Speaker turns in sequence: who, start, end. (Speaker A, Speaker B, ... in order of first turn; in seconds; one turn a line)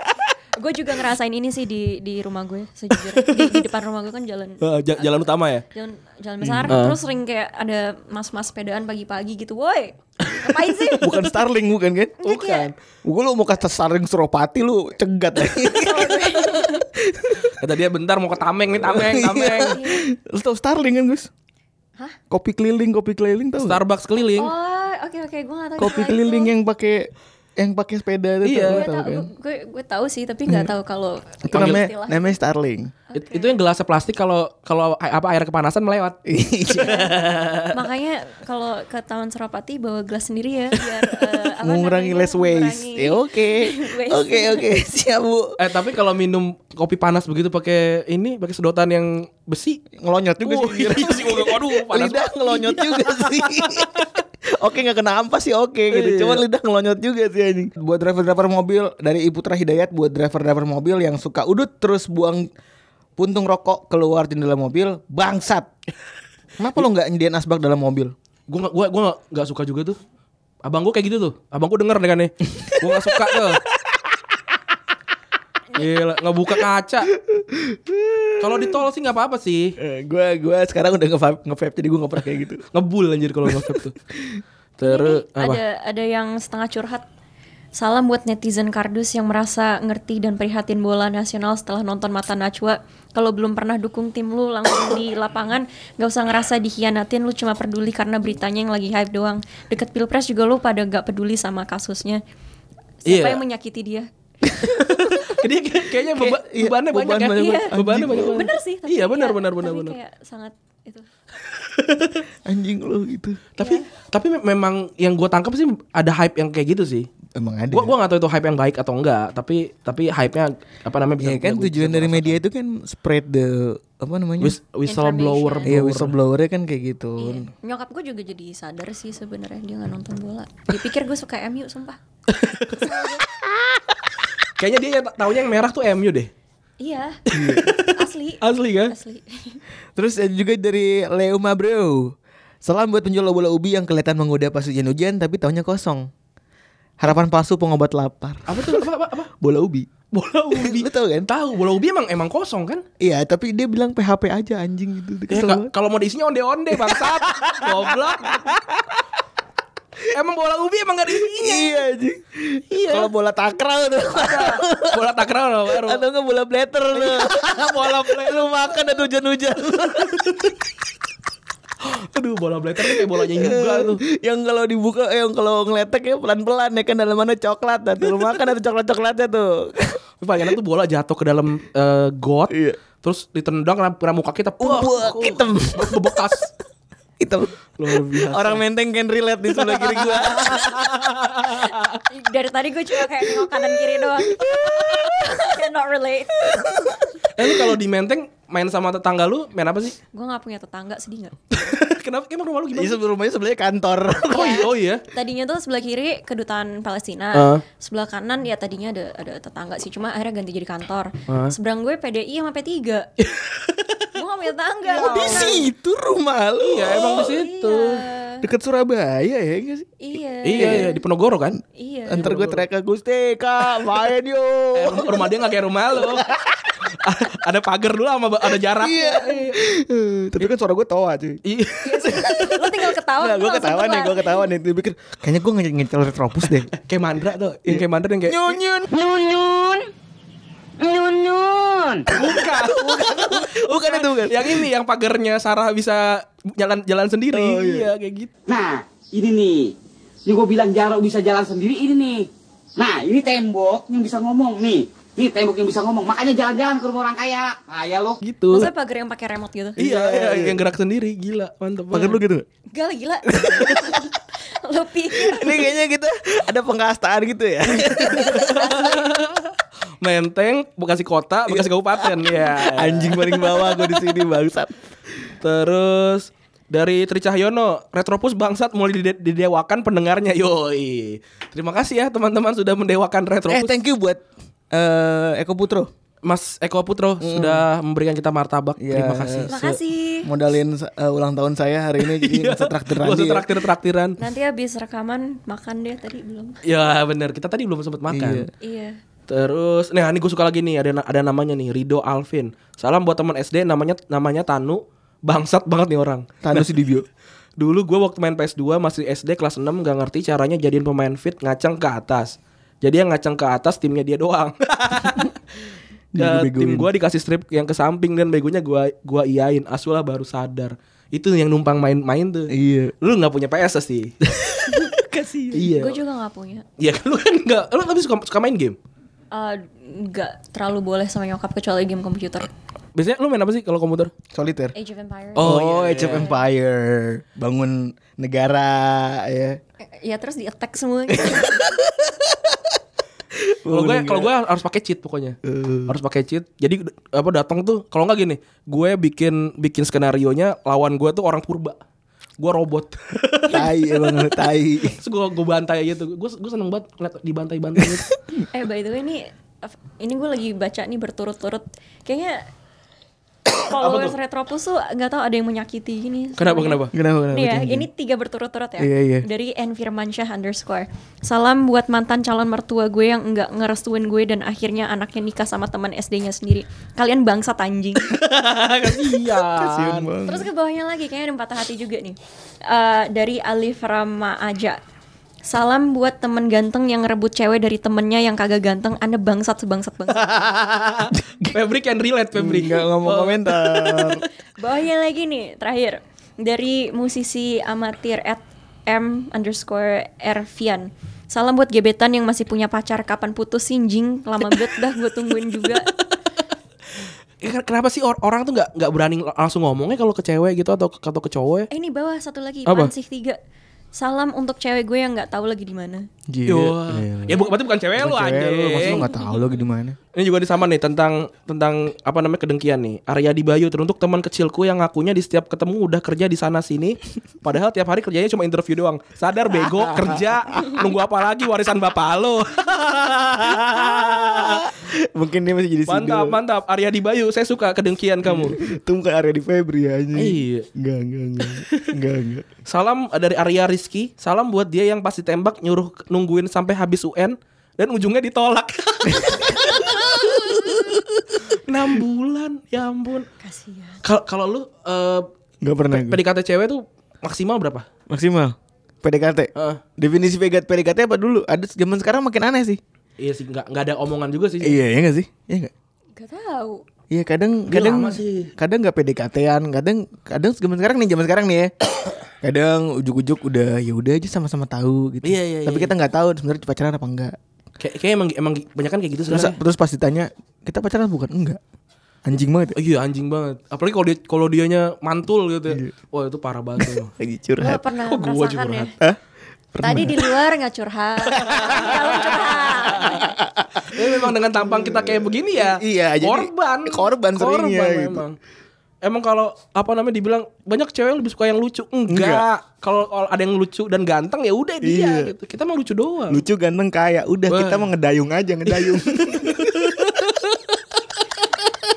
Speaker A: 0.6-11.3
Speaker B: 3.1-3.7
Speaker B: 4.6-5.6
Speaker C: 6.4-6.8
Speaker B: 6.7-7.0
Speaker C: 11.0-12.2
Speaker A: 12.2-12.7
Speaker B: 12.2-12.7
Speaker C: 13.0-17.5
Speaker A: 15.7-16.8
Speaker B: 17.6-19.8
Speaker C: 18.8-21.3
Speaker A: 19.6-20.0
Speaker C: 22.3-23.8
Speaker B: 23.6-24.5
Speaker A: 24.4-26.5
Speaker C: 25.8-29.3
Speaker B: 28.4-28.8
Speaker A: 28.7-32.4
Speaker C: 31.4-32.9
Speaker B: 31.5-31.8
Speaker A: 33.1-33.6
Speaker B: 33.1-36.2
Speaker C: 36.3-37.6
Speaker A: 36.7-37.1
Speaker B: 36.9-37.7
Speaker A: 37.7-44.7
Speaker C: 41.5-45.6
Speaker B: 45.6-49.8
Speaker C: 50.0-62.5
Speaker B: 50.4-54.1
Speaker B: 55.9-56.4
Speaker C: 63.2-65.7
Speaker C: 66.6-68.1
Speaker B: 68.5-70.0
Speaker B: 70.6-73.6
Speaker C: 72.6-74.0
Speaker B: 75.8-77.1
Speaker C: 77.1-78.8
Speaker B: 78.4-79.7
Speaker C: 79.8-82.6
Speaker B: 82.7-84.0
Speaker C: 83.5-84.4
Speaker B: 84.8-85.6
Speaker A: 84.8-87.0
Speaker A: 87.8-102.2
Speaker A: 103.0-104.1
Speaker B: 103.0-103.4
Speaker B: 104.7-110.0
Speaker C: 106.1-108.4
Speaker A: 107.3-111.0
Speaker B: 111.5-112.2
Speaker C: 112.5-113.4
Speaker B: 113.6-117.1
Speaker A: 113.6-113.8
Speaker C: 117.3-117.9
Speaker B: 117.7-122.4
Speaker C: 121.2-124.5
Speaker B: 124.4-126.1
Speaker A: 124.9-125.7
Speaker C: 125.6-127.5
Speaker A: 127.2-132.0
Speaker B: 132.3-132.9
Speaker A: 132.7-133.2
Speaker B: 134.6-136.3
Speaker A: 136.8-137.2
Speaker B: 137.3-138.9
Speaker C: 137.3-137.7
Speaker A: 137.9-139.6
Speaker C: 139.9-146.1
Speaker C: 147.0-148.8
Speaker B: 148.5-149.3
Speaker C: 149.4-149.9
Speaker B: 150.1-152.8
Speaker C: 150.5-151.3
Speaker C: 153.0-155.7
Speaker B: 155.3-158.5
Speaker C: 156.7-159.0
Speaker B: 160.1-161.8
Speaker C: 161.2-165.1
Speaker B: 162.7-163.1
Speaker B: 164.1-166.0
Speaker C: 165.7-170.4
Speaker B: 166.9-169.1
Speaker B: 170.0-170.5
Speaker B: 171.8-174.0
Speaker C: 172.8-180.5
Speaker B: 180.2-186.5
Speaker C: 182.5-182.8
Speaker C: 184.6-186.2
Speaker C: 187.2-190.9
Speaker B: 187.8-188.6
Speaker B: 189.6-192.0
Speaker A: 192.1-196.7
Speaker C: 194.2-195.3
Speaker C: 196.5-197.5
Speaker B: 197.3-200.0
Speaker A: 200.1-201.7
Speaker B: 201.5-203.0
Speaker C: 202.7-204.7
Speaker A: 204.3-213.1
Speaker B: 204.3-205.0
Speaker B: 207.3-207.6
Speaker B: 211.3-211.5
Speaker B: 213.2-214.1
Speaker A: 214.1-215.6
Speaker C: 214.9-217.4
Speaker B: 215.0-215.6
Speaker B: 216.6-218.0
Speaker A: 217.1-218.4
Speaker C: 218.4-220.0
Speaker A: 220.0-221.0
Speaker B: 220.4-221.6
Speaker C: 220.5-220.9
Speaker A: 221.8-222.3
Speaker C: 222.1-225.4
Speaker B: 222.2-222.6
Speaker B: 224.7-226.3
Speaker C: 225.9-226.7
Speaker B: 227.0-229.6
Speaker C: 228.6-231.4
Speaker B: 231.4-232.5
Speaker A: 231.8-234.5
Speaker C: 231.9-236.7
Speaker B: 236.7-238.6
Speaker C: 237.7-238.9
Speaker D: 240.8-242.1
Speaker C: 242.1-244.7
Speaker B: 242.1-248.3
Speaker C: 247.3-247.9
Speaker D: 248.5-249.7
Speaker D: 250.2-258.2
Speaker B: 258.2-258.7
Speaker A: 258.5-259.8
Speaker C: 259.8-260.6
Speaker B: 259.8-262.2
Speaker C: 261.9-262.4
Speaker A: 262.7-265.6
Speaker C: 263.3-263.9
Speaker C: 265.1-268.7
Speaker B: 267.7-274.0
Speaker A: 268.1-269.0
Speaker C: 271.5-274.8
Speaker B: 275.4-283.8
Speaker C: 283.5-285.9
Speaker B: 286.2-289.8
Speaker C: 287.2-287.6
Speaker C: 288.8-289.7
Speaker A: 289.5-290.3
Speaker C: 290.2-293.5
Speaker B: 292.0-294.2
Speaker A: 294.2-296.6
Speaker B: 296.6-298.5
Speaker C: 298.1-298.5
Speaker A: 298.6-298.9
Speaker B: 299.3-306.7
Speaker C: 306.4-307.1
Speaker B: 307.6-315.3
Speaker C: 316.1-316.9
Speaker B: 316.1-324.7
Speaker C: 322.5-322.9
Speaker C: 324.9-325.7
Speaker B: 325.5-326.0
Speaker A: 325.8-326.6
Speaker B: 326.8-328.8
Speaker A: 329.3-332.5
Speaker B: 332.9-334.1
Speaker C: 334.3-334.7
Speaker A: 334.7-336.4
Speaker B: 335.4-336.3
Speaker C: 335.4-339.6
Speaker A: 339.8-341.6
Speaker C: 341.1-342.6
Speaker C: 343.4-344.3
Speaker B: 343.7-351.8
Speaker C: 345.4-346.0
Speaker B: 352.4-354.1
Speaker C: 353.5-355.0
Speaker B: 354.9-358.1
Speaker A: 358.5-362.4
Speaker A: 363.6-378.1
Speaker B: 363.8-364.1
Speaker B: 366.4-366.9
Speaker C: 366.9-367.9
Speaker C: 368.8-369.2
Speaker B: 378.1-380.1
Speaker C: 379.4-380.5
Speaker A: 380.2-384.8
Speaker A: 385.4-390.5
Speaker B: 390.1-394.2
Speaker C: 392.3-394.2
Speaker A: 394.6-405.9
Speaker B: 405.5-406.0
Speaker B: 407.4-411.7
Speaker A: 411.7-413.4
Speaker B: 412.6-412.9
Speaker A: 413.9-416.1
Speaker C: 416.3-420.0
Speaker B: 416.5-419.1
Speaker A: 417.3-417.5
Speaker A: 418.8-419.5
Speaker B: 420.1-434.7
Speaker C: 429.5-430.9
Speaker C: 433.7-436.4
Speaker B: 435.9-438.6
Speaker C: 438.2-442.5
Speaker B: 440.1-440.7
Speaker B: 441.4-441.9
Speaker B: 442.6-450.6
Speaker C: 449.1-451.2
Speaker B: 451.5-453.3
Speaker A: 453.4-454.0
Speaker B: 454.0-455.3
Speaker C: 455.6-456.2
Speaker B: 455.9-457.9
Speaker C: 458.1-462.8
Speaker B: 459.6-459.8
Speaker B: 463.2-464.8
Speaker C: 464.6-465.7
Speaker A: 466.1-466.8
Speaker C: 467.1-471.7
Speaker B: 467.7-468.5
Speaker C: 472.4-477.4
Speaker B: 475.2-475.9
Speaker B: 477.8-479.6
Speaker C: 479.3-481.6
Speaker C: 482.2-482.8
Speaker B: 482.7-487.1
Speaker C: 486.8-487.8
Speaker A: 487.6-488.9
Speaker B: 488.1-488.9
Speaker C: 489.7-490.3
Speaker A: 489.8-493.3
Speaker B: 491.4-493.2
Speaker C: 491.4-498.2
Speaker B: 493.9-498.4
Speaker B: 499.0-506.4
Speaker C: 502.1-502.4
Speaker C: 504.8-505.3
Speaker C: 506.3-509.9
Speaker B: 507.5-507.9
Speaker B: 508.7-510.7